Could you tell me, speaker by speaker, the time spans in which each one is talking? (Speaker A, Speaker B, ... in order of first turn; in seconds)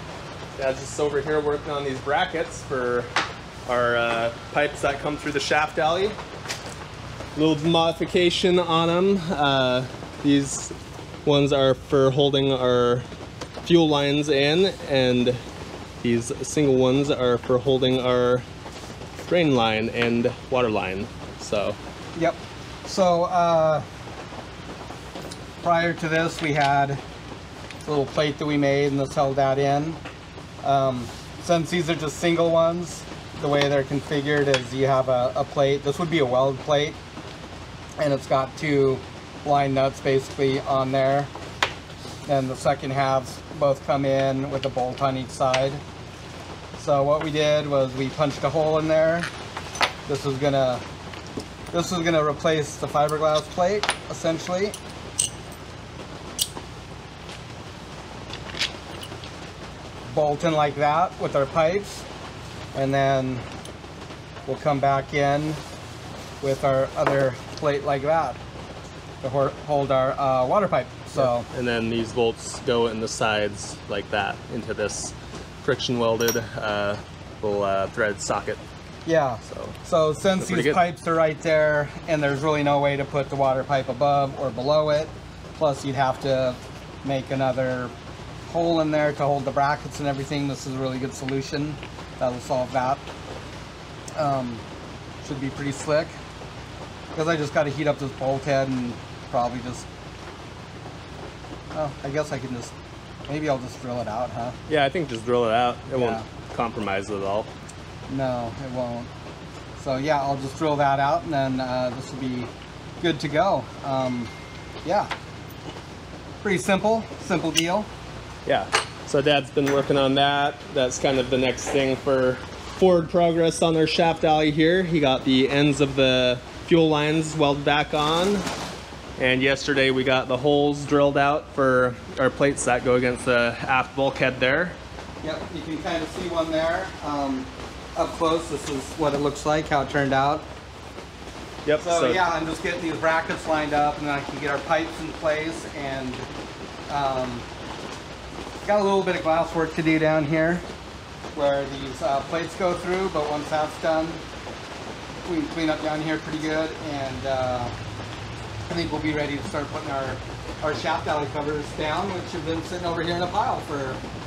Speaker A: 0.6-3.1, 3.7-6.2, 7.3-13.1, 13.6-15.4, 16.0-18.4, 19.3-21.8, 71.2-78.6, 79.4-79.8, 80.4-80.8, 104.7-107.5, 118.5-128.4, 129.2-134.8, 141.6-142.2
Speaker B: 22.1-23.9, 25.6-27.0, 27.8-30.0, 30.6-37.0, 38.0-41.3, 42.2-45.8, 46.7-49.3, 50.0-50.8, 51.7-54.8, 60.1-62.1, 62.7-63.5, 64.5-65.6, 66.4-68.4, 69.2-71.5, 79.0-87.9, 88.5-93.1, 94.1-94.7, 95.2-96.2, 97.1-99.9, 101.7-102.7, 103.3-104.6, 105.9-106.2, 108.1-109.1, 109.8-114.3, 114.8-115.1, 116.4-117.9, 135.2-140.5, 141.8-146.3, 146.9-147.5, 148.6-150.7, 151.3-154.2, 155.2-157.8, 158.7-164.0